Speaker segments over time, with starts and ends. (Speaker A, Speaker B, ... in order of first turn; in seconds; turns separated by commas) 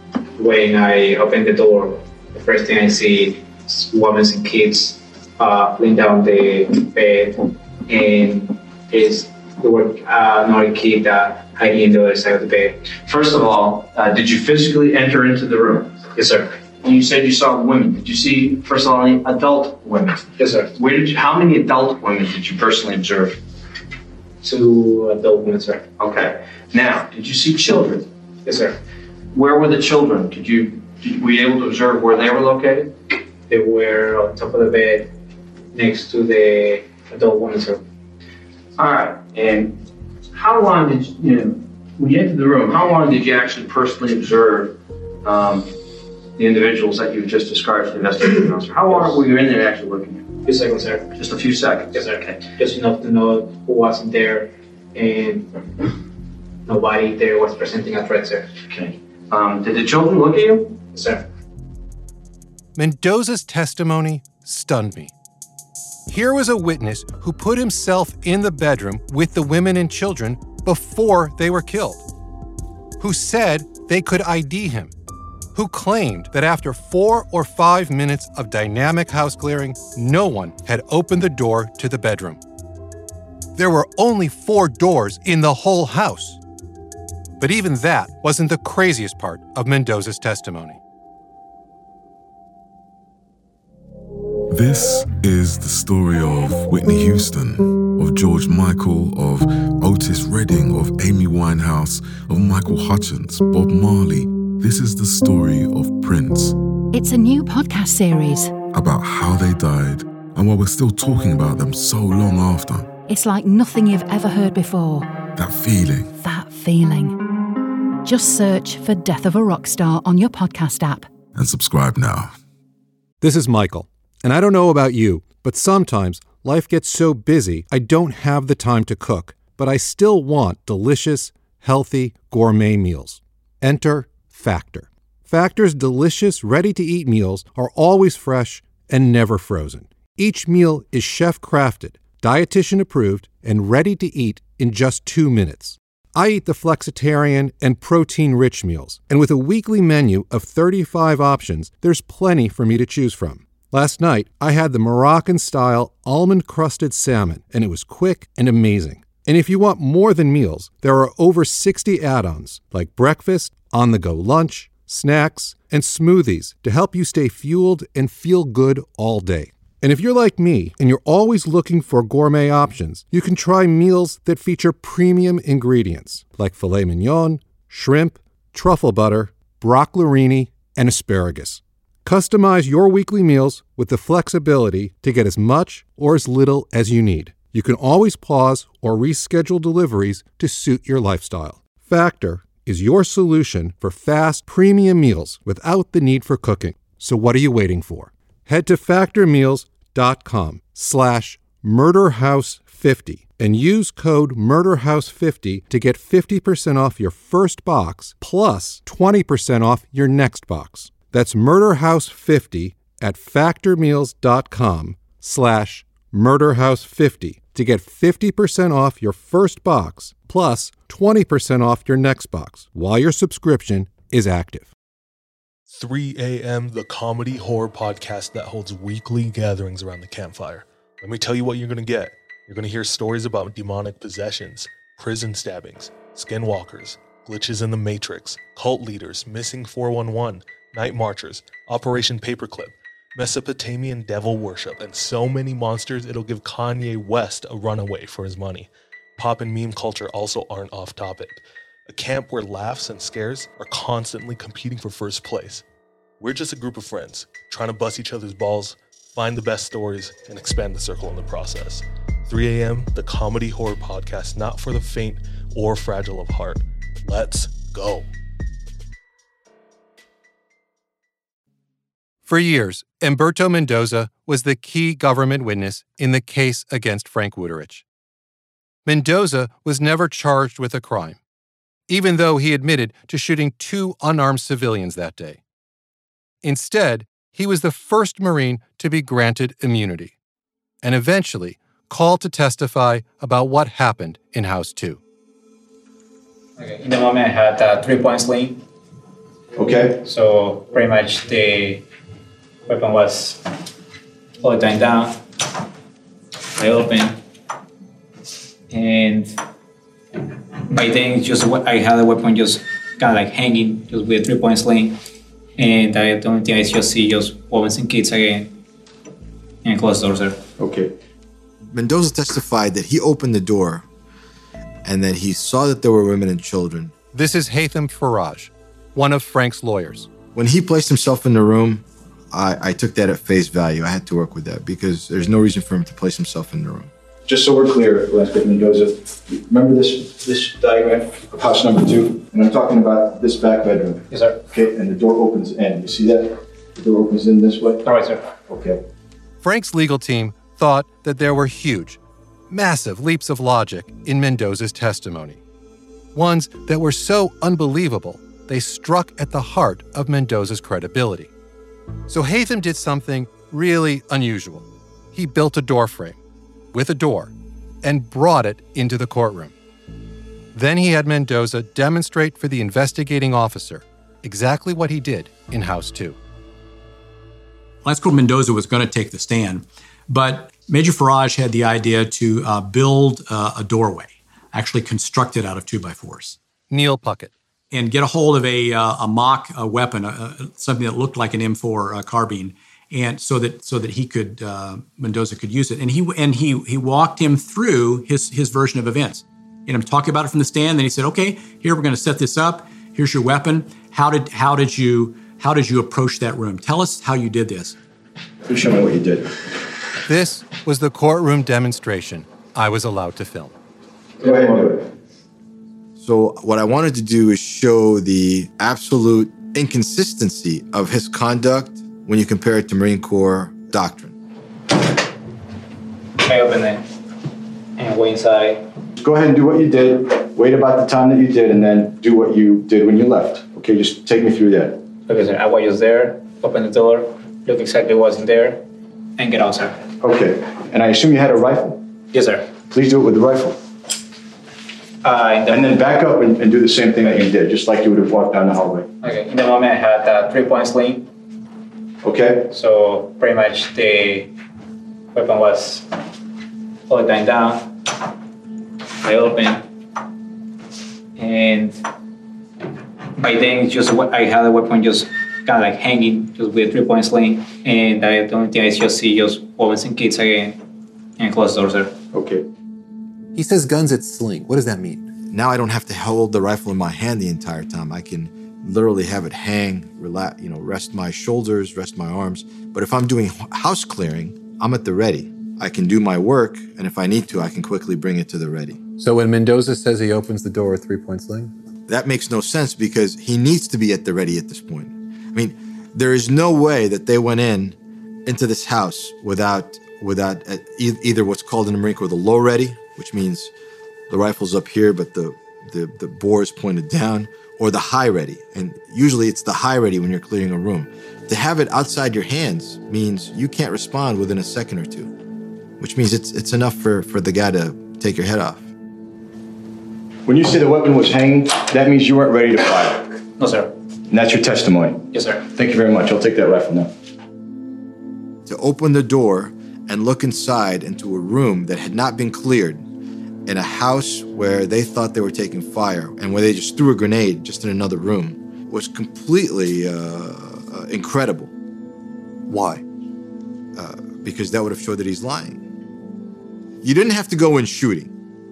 Speaker A: 0.4-12.9, Speaker B: 13.0-15.9, Speaker A: 16.1-16.5, Speaker B: 16.8-23.4, Speaker A: 20.4-20.7, Speaker A: 24.4-25.8, Speaker B: 26.0-28.1, Speaker A: 28.4-28.8, Speaker B: 29.3-32.9, Speaker A: 33.5-35.1, Speaker A: 35.7-37.8, Speaker B: 38.8-39.8, Speaker B: 40.3-45.7, Speaker B: 46.4-50.2, Speaker A: 50.4-51.1, Speaker B: 51.1-52.4, Speaker A: 51.9-55.6, Speaker A: 56.6-58.5, Speaker B: 58.7-60.8, Speaker A: 60.9-61.2, Speaker C: 62.8-65.1, Speaker C: 66.1-72.0, Speaker C: 73.0-74.9, Speaker C: 75.5-82.4, Speaker C: 83.5-86.4, Speaker C: 87.4-90.8, Speaker D: 94.5-106.5, Speaker E: 106.9-108.5, Speaker D: 108.7-112.9, Speaker E: 113.1-115.1, Speaker D: 115.3-116.1, Speaker E: 116.2-117.2, Speaker E: 118.0-121.1, Speaker D: 121.3-122.3, Speaker C: 123.2-224.7, Speaker F: 225.7-255.6, Speaker F: 256.2-268.1, Speaker C: 272.2-277.8, Speaker C: 278.9-281.2, Speaker C: 281.9-285.4, Speaker C: 286.4-290.1, Speaker C: 290.8-295.0, Speaker A: 296.6-298.6, Speaker G: 299.6-300.0, Speaker A: 300.0-301.8, Speaker A: 302.7-303.4, Speaker A: 304.4-305.2, Speaker A: 306.6-307.2, Speaker A: 308.7-309.4, Speaker A: 310.7-314.9, Speaker A: 315.6-318.6, Speaker A: 319.6-320.4, Speaker G: 320.6-320.9, Speaker H: 321.7-323.9, Speaker H: 324.8-326.9, Speaker C: 327.1-330.1, Speaker H: 330.3-336.9, Speaker G: 337.2-347.8, Speaker A: 344.1-344.4, Speaker A: 347.8-348.2, Speaker G: 348.5-348.8, Speaker C: 349.4-352.0, Speaker C: 352.5-355.4, Speaker C: 356.1-361.3, Speaker C: 362.1-366.2, Speaker C: 366.7-369.5, Speaker C: 370.5-376.2, Speaker I: 377.8-386.4, Speaker C: 386.7-387.3, Speaker I: 387.7-407.8, Speaker G: 408.5-409.3, Speaker C: 410.1-413.5, Speaker G: 414.2-414.8, Speaker H: 416.0-424.1, Speaker A: 426.2-426.8, Speaker A: 427.8-428.6, Speaker G: 429.0-434.8, Speaker A: 435.1-438.6, Speaker A: 439.2-439.8, Speaker G: 440.0-441.8, Speaker A: 442.1-442.4, Speaker G: 442.7-443.6, Speaker A: 445.0-445.7, Speaker G: 445.5-448.9, Speaker A: 449.0-451.1, Speaker G: 452.0-452.5, Speaker A: 452.5-454.3, Speaker A: 455.1-455.9, Speaker A: 456.9-457.7, Speaker A: 459.0-459.6, Speaker A: 461.2-461.8, Speaker A: 463.2-470.6, Speaker A: 471.2-471.9, Speaker G: 472.1-472.4, Speaker J: 473.3-475.1, Speaker H: 475.3-488.8, Speaker J: 489.0-491.5, Speaker H: 491.9-503.5, Speaker H: 504.1-515.1, Speaker H: 515.8-518.7, Speaker G: 520.2-523.2, Speaker A: 523.4-523.7, Speaker G: 524.1-526.9, Speaker A: 525.1-525.4, Speaker H: 528.5-532.8, Speaker H: 533.5-541.5, Speaker J: 542.5-542.8, Speaker H: 543.7-545.6, Speaker H: 546.8-548.1